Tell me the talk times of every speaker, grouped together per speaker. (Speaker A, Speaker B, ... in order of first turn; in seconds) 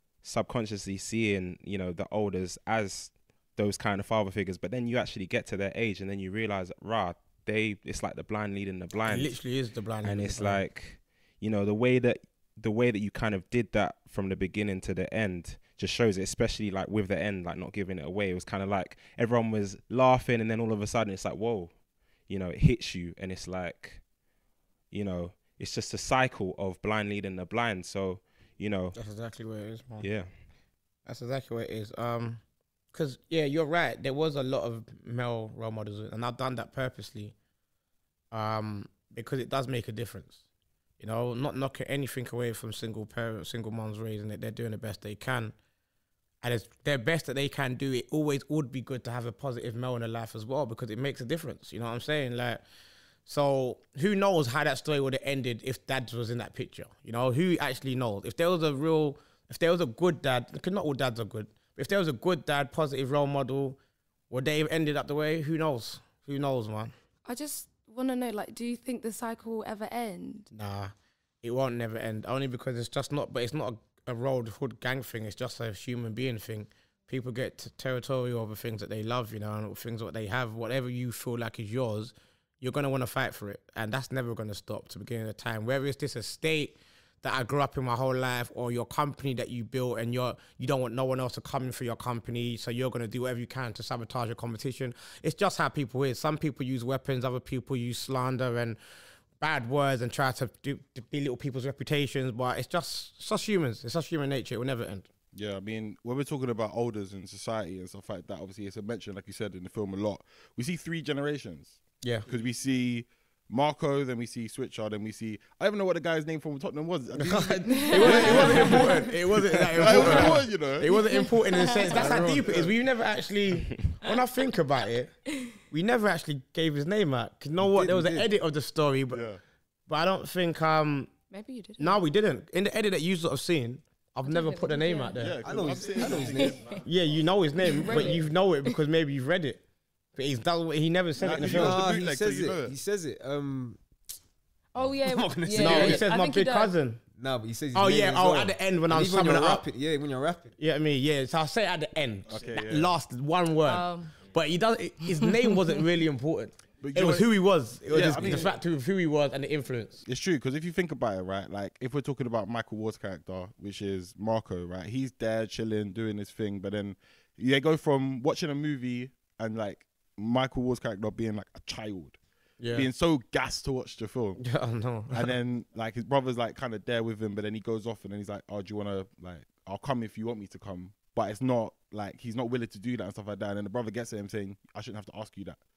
Speaker A: 0.2-9.4, 10.0-21.7, 22.3-24.0, 24.9-28.9, 30.0-30.4
Speaker B: 9.1-10.6, 28.9-30.1, 31.1-32.4, 32.9-37.3, 38.3-40.4, 41.0-45.5, 46.4-52.6, 53.2-63.8, 64.3-66.9, 70.5-98.8, 99.4-105.1, 112.0-112.3, 117.2-129.2, 129.9-131.1, 131.8-135.4, 136.8-139.6, 140.1-141.8, 145.5-147.0, 147.7-149.6, 150.6-160.0, 172.6-172.9, 174.4-175.3
Speaker C: 67.2-70.5, 117.9-119.1, 119.9-122.2, 131.3-132.0, 134.2-135.1, 136.1-136.8, 137.6-138.2, 144.7-146.7, 153.7-154.1
Speaker D: 105.3-120.9, 121.9-122.7, 129.1-129.4, 135.2-136.8, 141.2-142.7, 152.3-152.9, 156.8-157.3, 157.9-158.5, 160.0-172.2, 172.7-174.4, 175.1-185.6
Speaker E: 127.6-128.3, 135.4-136.8, 137.9-138.2, 141.5-143.8, 144.8-146.1, 147.2-150.5